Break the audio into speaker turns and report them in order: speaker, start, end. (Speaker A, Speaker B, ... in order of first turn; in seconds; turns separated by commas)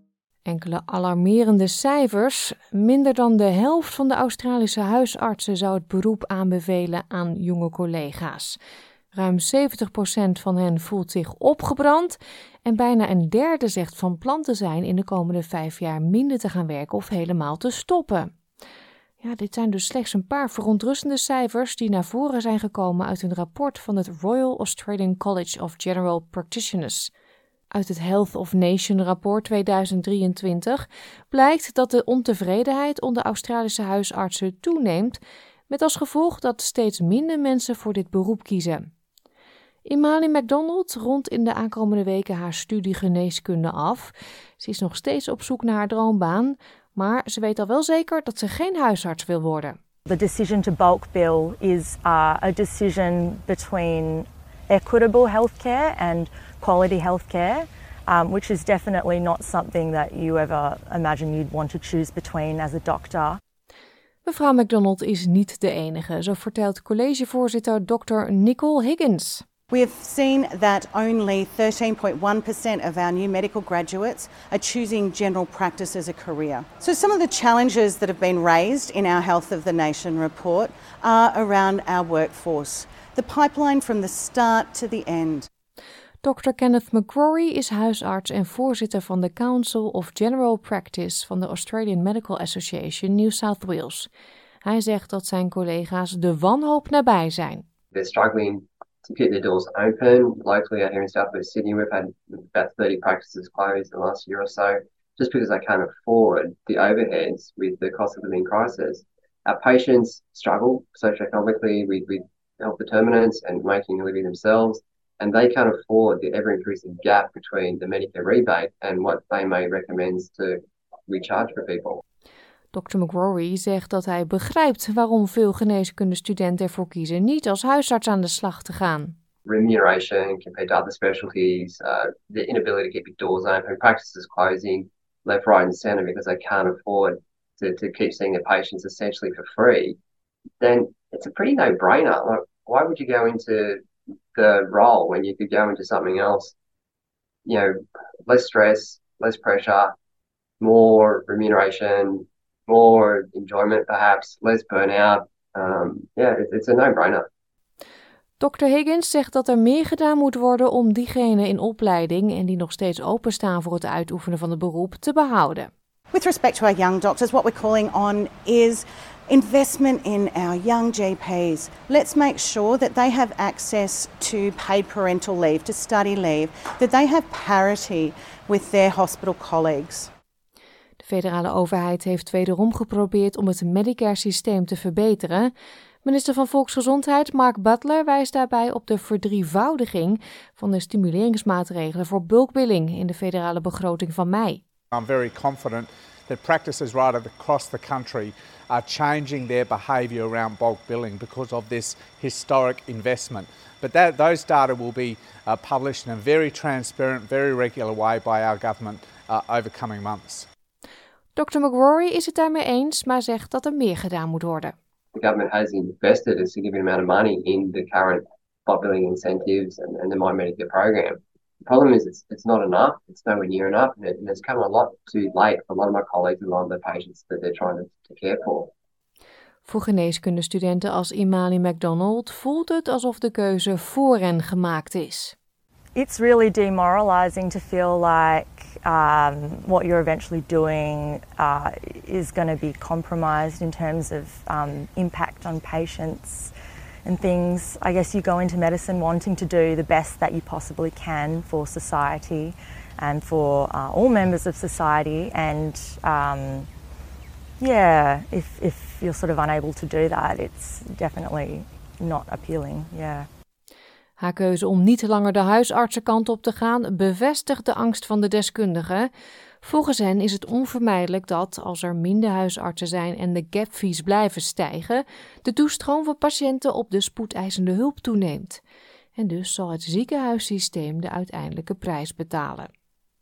Speaker A: 0.5-8.6, Speaker A: 9.1-18.3, Speaker A: 19.2-27.1, Speaker A: 27.7-38.9, Speaker A: 39.9-49.8, Speaker B: 50.1-63.4, Speaker A: 64.2-69.4, Speaker C: 69.7-85.5, Speaker A: 86.2-94.1, Speaker A: 94.6-97.6, Speaker D: 97.9-122.0, Speaker A: 122.7-129.2, Speaker D: 129.4-140.0, Speaker D: 140.6-143.8, Speaker D: 144.3-146.6, Speaker D: 147.4-149.9, Speaker D: 150.6-157.2, Speaker A: 158.4-165.7, Speaker C: 166.1-180.1, Speaker A: 181.0-185.5, Speaker A: 186.1-194.6, Speaker E: 194.9-210.5, Speaker A: 211.4-214.7, Speaker D: 215.1-228.7, Speaker A: 229.7-235.4, Speaker B: 235.9-246.5, Speaker B: 247.1-256.7, Speaker B: 257.6-263.3, Speaker A: 264.2-269.1, Speaker A: 269.6-278.6, Speaker A: 279.2-282.7